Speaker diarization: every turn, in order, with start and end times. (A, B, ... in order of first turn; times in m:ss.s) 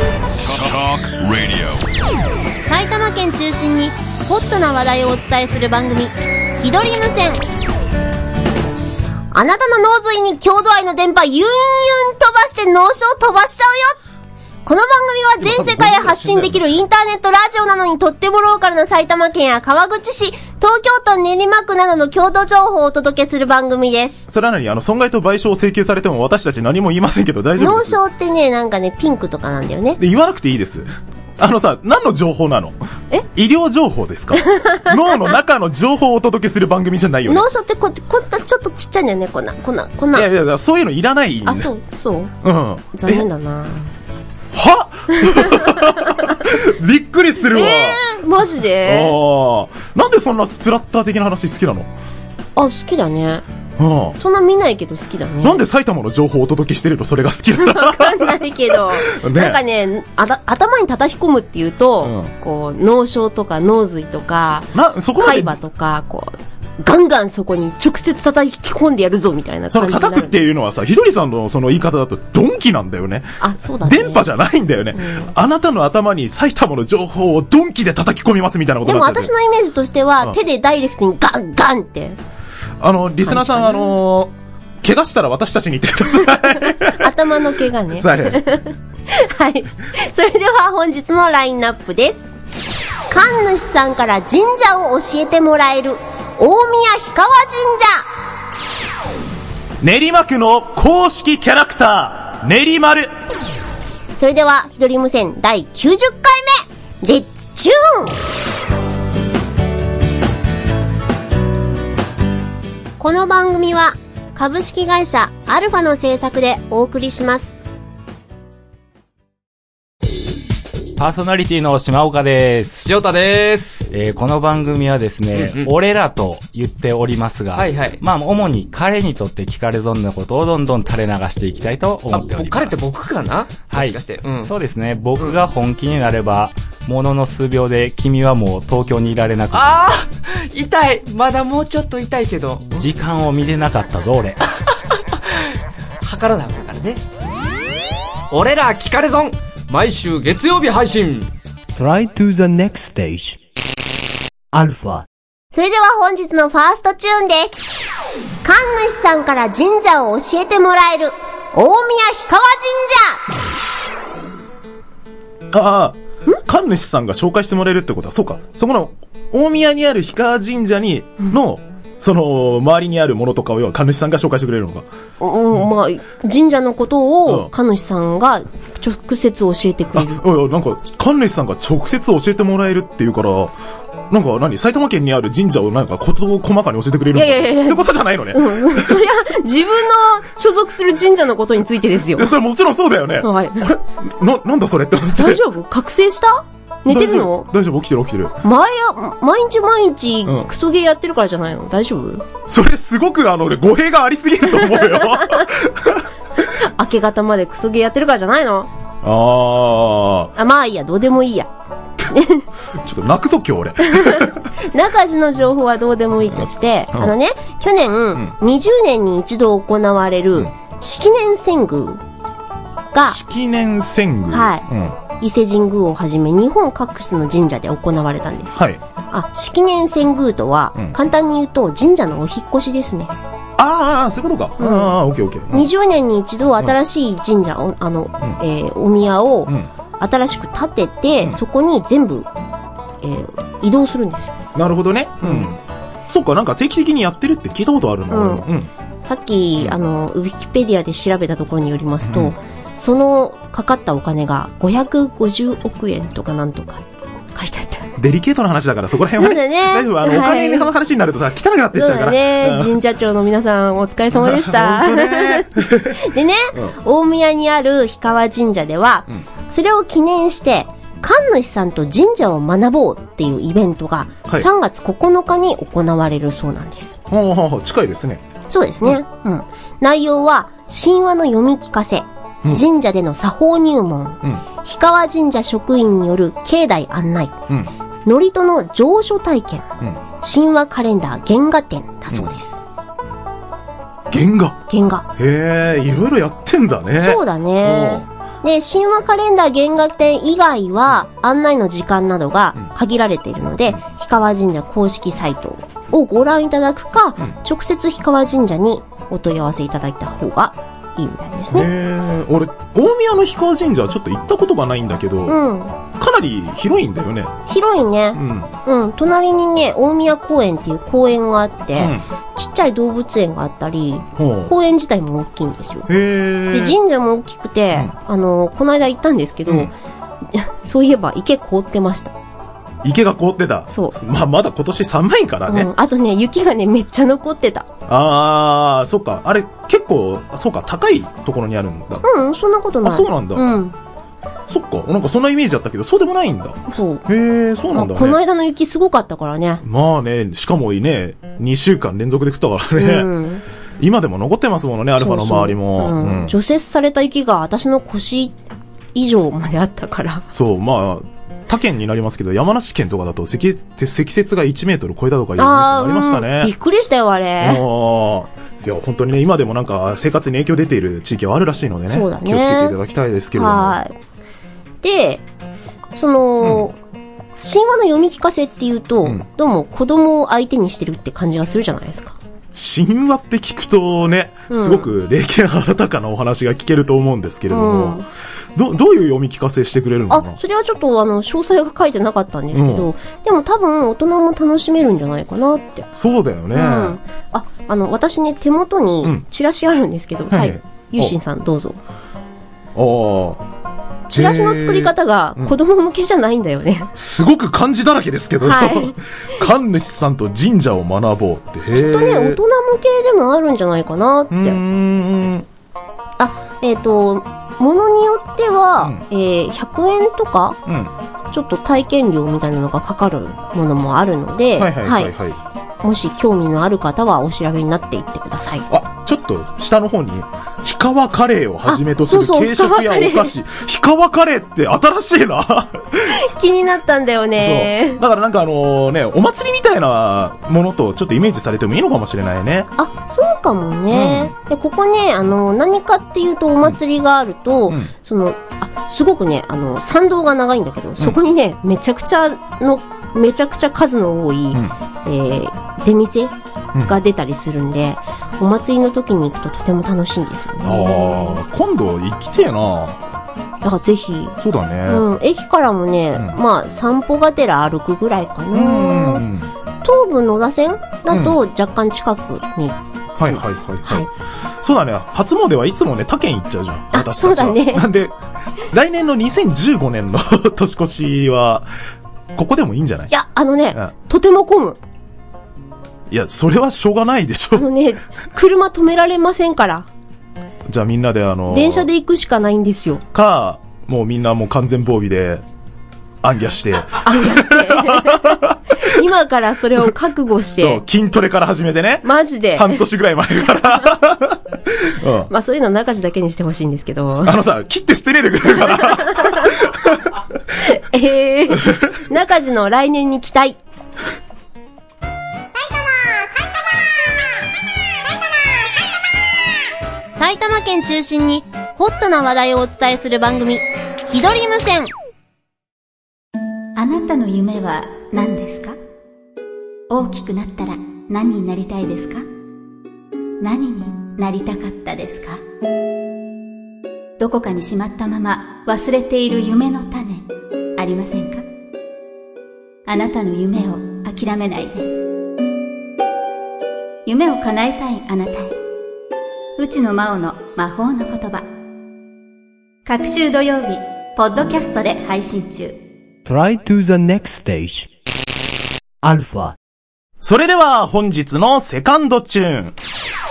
0:02.7-0:07.4 A
0:09.3-0:14.0 A
0:14.6-0:24.2 A
0:15.4-0:16.6 B
0:24.3-0:28.0 B
0:27.6-0:30.0 A
0:30.0-0:30.9 B
0:31.4-0:32.8 B
0:33.3-0:37.5 B
0:34.5-0:34.8 A
0:37.3-0:40.3 A
0:40.1-0:41.7 B
0:41.5-0:42.3 A
0:42.4-0:43.3 B
0:42.9-0:43.9 A
0:44.5-0:48.0 B
0:45.1-0:46.2 A
0:47.5-0:49.2 A
0:48.8-0:51.9 B
0:52.6-0:53.4 A
0:53.8-0:54.2 B
0:54.2-0:55.6 A
0:55.4-0:59.6 B
0:57.6-1:10.3 A
1:02.0-1:02.3 B
1:04.7-1:05.6 B
1:09.7-1:13.3 B
1:13.4-1:14.3 A
1:13.8-1:19.3 B
1:15.0-1:15.3 A
1:18.8-1:22.2 A
1:22.8-1:27.1 B
1:23.2-1:24.0 A
1:26.5-1:32.2 A
1:28.0-1:28.4 B
1:33.1-1:38.1 A
1:39.8-1:43.1 B
1:44.2-1:48.2 A
1:53.0-1:57.5 A
2:01.0-2:02.8 C
2:02.8-2:03.9 D
2:03.9-2:12.8 C
2:05.3-2:05.7 D
2:07.5-2:08.0 D
2:12.1-2:14.5 D
2:13.7-2:19.7 C
2:19.5-2:22.7 D
2:22.8-2:24.4 C
2:26.0-2:27.0 D
2:28.3-2:31.3 D
2:31.8-2:33.4 E
2:34.5-2:35.1 E
2:35.5-2:37.6 A
2:38.4-2:43.2 A
2:45.5-2:54.9 B
2:55.2-3:00.2 A
2:57.2-2:57.5 B
3:00.0-3:03.5 B
3:04.1-3:09.0 B
3:07.1-3:12.3 A
3:12.1-3:15.4 B
3:13.2-3:13.8 A
3:15.2-3:17.5 A
3:16.9-3:18.4 B
3:18.4-3:22.3 A
3:22.5-3:26.0 B
3:24.6-3:25.4 A
3:26.8-3:28.7 A
3:29.0-3:30.3 B
3:30.4-3:31.5 A
3:32.1-3:32.4 A
3:32.8-3:34.5 B
3:33.9-3:42.0 A
3:36.3-3:37.2 B
3:42.9-3:43.2 A
3:43.0-3:45.0 B
3:44.3-3:44.6 A
3:45.2-3:53.1 A
3:48.6-3:48.8 B
3:53.6-3:55.7 B
3:54.6-3:55.0 A
3:55.5-4:02.3 A
4:03.0-4:04.3 A
4:04.6-4:08.7 B
4:08.1-4:08.4 A
4:09.0-4:17.9 A
4:12.0-4:12.4 B
4:18.0-4:22.8 B
4:19.2-4:20.7 A
4:21.8-4:37.0 A
4:24.1-4:26.0 B
4:37.1-4:38.2 B
4:38.5-4:47.3 A
4:48.0-4:49.6 A
4:50.2-4:52.6 A
4:54.1-4:54.6 B
4:54.7-4:55.1 A
4:55.2-4:58.1 B
4:57.0-5:11.7 A
5:11.5-5:15.4 B
5:15.3-5:15.8 A
5:16.0-5:17.3 B
5:17.5-5:25.9 A
5:18.2-5:18.5 B
5:21.8-5:22.0 B
5:24.2-5:24.5 B
5:25.9-5:26.8 B
5:26.5-5:29.7 A
5:29.5-5:29.7 B
5:30.3-5:32.1 A
5:32.8-5:35.7 B
5:33.7-5:34.0 A
5:35.5-5:37.7 A
5:37.9-5:42.1 B
5:42.0-5:43.8 A
5:42.8-5:43.6 B
5:44.5-5:48.2 B
5:46.7-5:47.0 A
5:47.7-5:49.6 A
5:49.6-5:53.1 B
5:52.8-5:53.4 A
5:53.8-5:56.4 B
5:55.0-5:58.4 A
5:58.9-6:00.2 A
6:00.3-6:06.5 B
6:05.4-6:07.6 A
6:07.4-6:13.8 B
6:11.9-6:12.8 A
6:13.3-6:13.9 A
6:14.8-6:15.2 A
6:15.9-6:16.8 A
6:16.4-6:16.7 B
6:17.4-6:22.2 A
6:22.5-6:28.0 B
6:24.5-6:24.9 A
6:27.5-6:28.1 A
6:28.6-6:30.4 B
6:30.1-6:35.9 A
6:32.5-6:32.9 B
6:35.9-6:37.0 B
6:36.5-6:41.8 A
6:40.3-6:41.2 B
6:42.8-6:43.4 B
6:44.1-6:46.9 A
6:44.1-6:45.6 B
6:46.9-6:52.4 B
6:48.4-6:49.0 A
6:51.8-6:54.6 A
6:54.3-6:55.5 B
6:56.2-7:00.6 A
6:58.8-6:59.0 B
7:00.7-7:00.9 B
7:01.3-7:05.1 A
7:04.6-7:05.4 B
7:05.8-7:08.7 A
7:08.7-7:16.3 B
7:11.7-7:13.3 A
7:16.1-7:18.0 A
7:17.4-7:22.7 B
7:22.8-7:36.3 A
7:23.9-7:24.3 B
7:36.8-7:41.4 A
7:40.6-7:43.0 B
7:43.6-7:49.2 A
7:44.4-7:45.0 B
7:48.5-7:49.5 B
7:49.8-7:54.1 A
7:51.1-7:51.4 B
7:53.2-7:54.1 B
7:54.6-7:58.1 B
7:56.9-7:57.9 A
7:58.7-8:01.7 B
8:02.4-8:03.1 B
8:03.1-8:04.8 A
8:06.1-8:07.7 B
8:07.5-8:09.9 A
8:10.7-8:11.9 B
8:11.5-8:13.0 A
8:13.1-8:15.4 B
8:16.2-8:18.8 B
8:17.0-8:20.8 A
8:20.6-8:25.3 B
8:22.0-8:22.8 A
8:25.3-8:27.4 A
8:27.1-8:30.1 B
8:29.0-8:29.5 A
8:30.7-8:33.6 A
8:40.2-8:44.9 A
8:46.8-8:48.8 F
8:49.9-8:52.3 F
8:53.4-8:55.4 F
8:57.2-9:01.5 F
9:02.9-9:04.9 F
9:07.0-9:08.6 F
9:09.6-9:11.5 F
9:12.8-9:15.8 F
9:16.3-9:17.9 E
9:19.0-9:19.6 E
9:20.2-9:22.8 B